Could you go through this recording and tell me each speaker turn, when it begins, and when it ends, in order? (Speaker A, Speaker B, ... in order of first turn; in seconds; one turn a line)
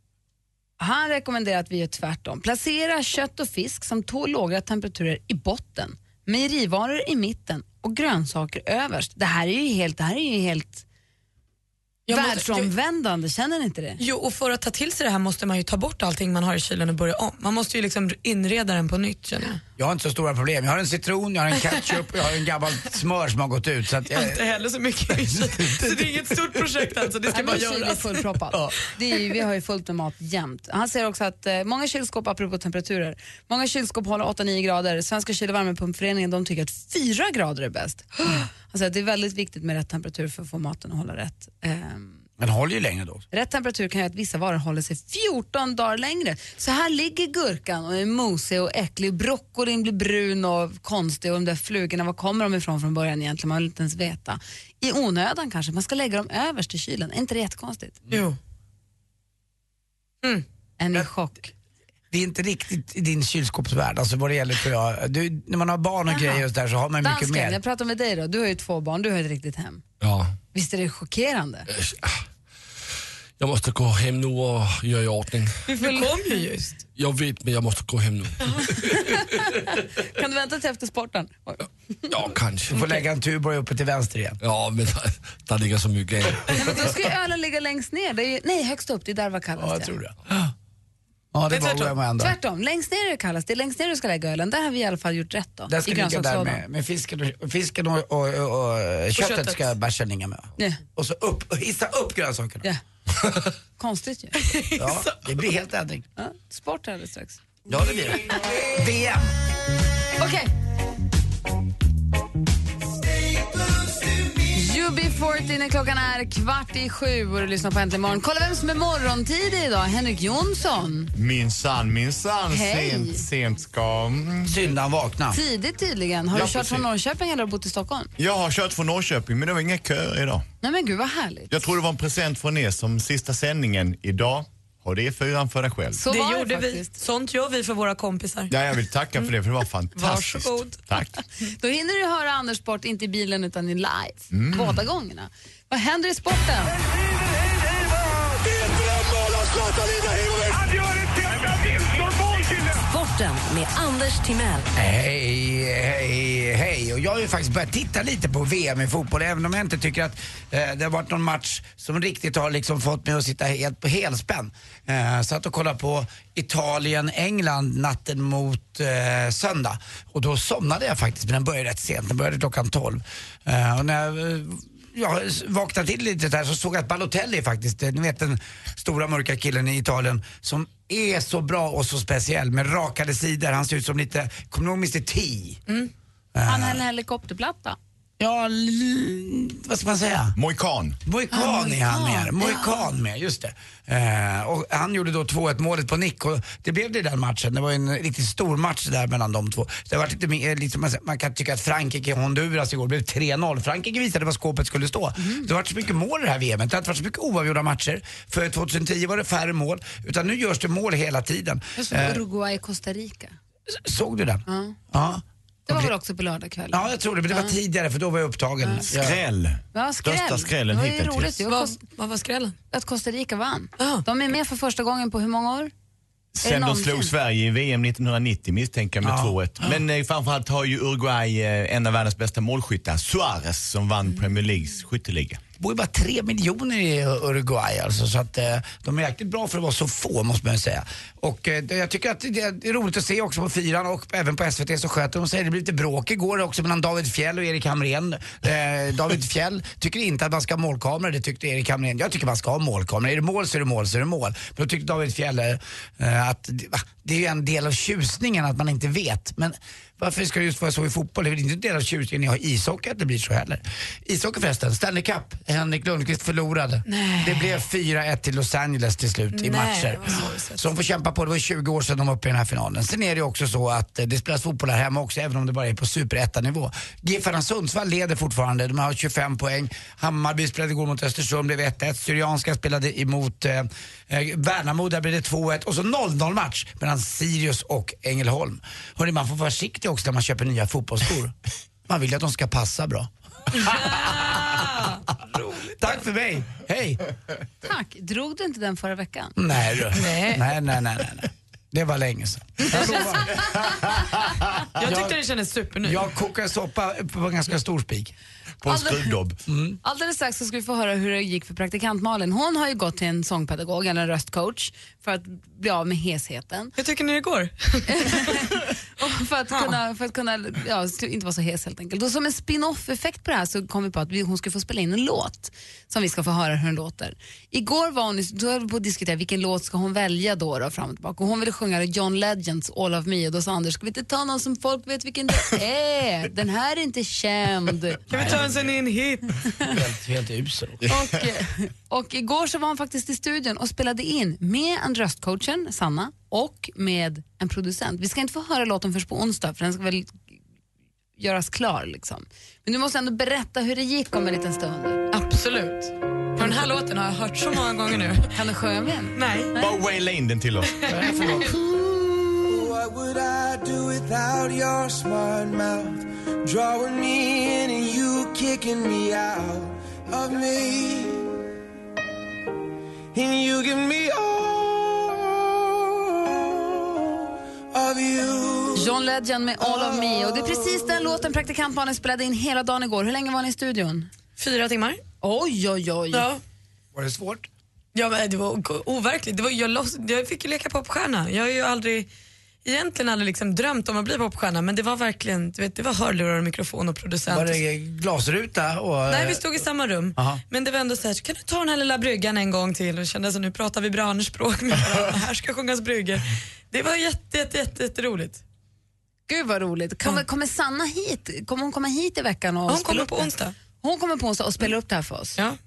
Speaker A: 0.8-10.8
Speaker B: 12.1-12.7
Speaker A: 12.1-14.0
Speaker B: 14.0-19.6
Speaker C: 19.8-24.4
Speaker B: 24.1-28.2
Speaker C: 25.1-26.4
Speaker A: 27.3-42.1
Speaker C: 42.4-43.2
Speaker A: 43.3-58.0
Speaker B: 58.1-58.4
Speaker A: 60.8-61.5
Speaker C: 62.1-67.6
Speaker A: 66.1-66.4
Speaker A: 67.0-69.8
Speaker D: 70.0-70.3
Speaker A: 70.5-71.7
Speaker D: 71.7-72.1
Speaker D: 73.4-75.6
Speaker B: 75.7-76.8
Speaker A: 75.8-76.1
Speaker D: 77.0-79.5
Speaker A: 78.8-82.1
Speaker D: 82.1-82.8
Speaker C: 82.7-84.4
Speaker D: 84.4-87.0
Speaker A: 86.5-90.0
Speaker C: 89.6-90.5
Speaker C: 91.3-92.3
Speaker B: 91.5-91.9
Speaker A: 92.2-96.6
Speaker C: 95.7-102.7
Speaker B: 99.2-99.7
Speaker A: 103.8-104.4
Speaker B: 104.4-105.3
Speaker C: 104.8-106.1
Speaker A: 106.2-107.4
Speaker C: 107.7-109.3
Speaker A: 110.2-110.5
Speaker A: 114.5-121.1
Speaker E: 121.1-124.6
Speaker A: 122.5-123.2
Speaker C: 124.5-125.4
Speaker A: 125.3-128.1
Speaker E: 126.3-126.9
Speaker E: 128.2-130.5
Speaker A: 130.6-131.6
Speaker E: 131.5-136.0
Speaker A: 136.0-136.9
Speaker B: 136.1-138.5
Speaker E: 138.5-141.2
Speaker B: 139.9-140.8
Speaker A: 141.4-146.8
Speaker E: 144.3-144.8
Speaker F: 152.6-154.7
Speaker C: 154.8-185.6
Speaker C: 186.3-186.8
Speaker A: 186.5-187.8
Speaker C: 188.2-190.4
Speaker E: 190.4-191.0
Speaker C: 191.1-212.2
Speaker A: 191.3-192.8
Speaker A: 205.2-205.5
Speaker A: 211.8-213.4
Speaker C: 213.7-215.9
Speaker A: 214.5-214.8
Speaker A: 215.7-217.6
Speaker C: 216.7-219.2
Speaker A: 218.6-218.9
Speaker E: 218.9-221.4
Speaker A: 219.7-221.8
Speaker B: 221.5-222.6
Speaker A: 222.7-225.7
Speaker B: 223.8-224.0
Speaker E: 226.3-235.4
Speaker A: 226.4-227.1
Speaker C: 229.0-229.8
Speaker C: 235.6-291.4
Speaker B: 266.9-267.6
Speaker B: 269.3-270.6
Speaker C: 291.9-293.1
Speaker B: 293.5-296.1
Speaker C: 293.7-294.7
Speaker C: 295.8-297.1
Speaker A: 297.6-299.4
Speaker C: 299.4-303.9
Speaker B: 299.9-300.5
Speaker B: 302.7-303.0
Speaker A: 302.9-303.9
Speaker E: 304.0-304.3
Speaker B: 304.8-306.1
Speaker C: 304.8-305.2
Speaker C: 305.8-308.1
Speaker E: 308.6-309.4
Speaker A: 308.7-309.2
Speaker C: 309.5-309.8
Speaker A: 309.8-316.7
Speaker B: 316.8-318.6
Speaker A: 317.9-338.0
Speaker B: 338.1-339.4
Speaker E: 338.1-338.8
Speaker C: 339.7-340.8
Speaker A: 340.9-350.2
Speaker A: 351.2-355.0
Speaker B: 355.1-358.3
Speaker A: 358.3-359.7
Speaker B: 359.1-359.5
Speaker E: 359.6-360.9
Speaker C: 360.9-361.6
Speaker B: 360.9-361.4
Speaker G: 362.4-371.4
Speaker G: 373.1-379.0
Speaker A: 378.8-384.1
Speaker G: 379.6-381.0
Speaker B: 384.4-385.0
Speaker A: 385.2-386.3
Speaker B: 386.1-386.4
Speaker C: 386.9-387.5
Speaker B: 387.9-392.1
Speaker B: 392.6-397.6
Speaker C: 397.3-399.6
Speaker B: 399.1-408.4
Speaker C: 400.2-400.4
Speaker A: 409.3-415.4
Speaker B: 412.7-413.6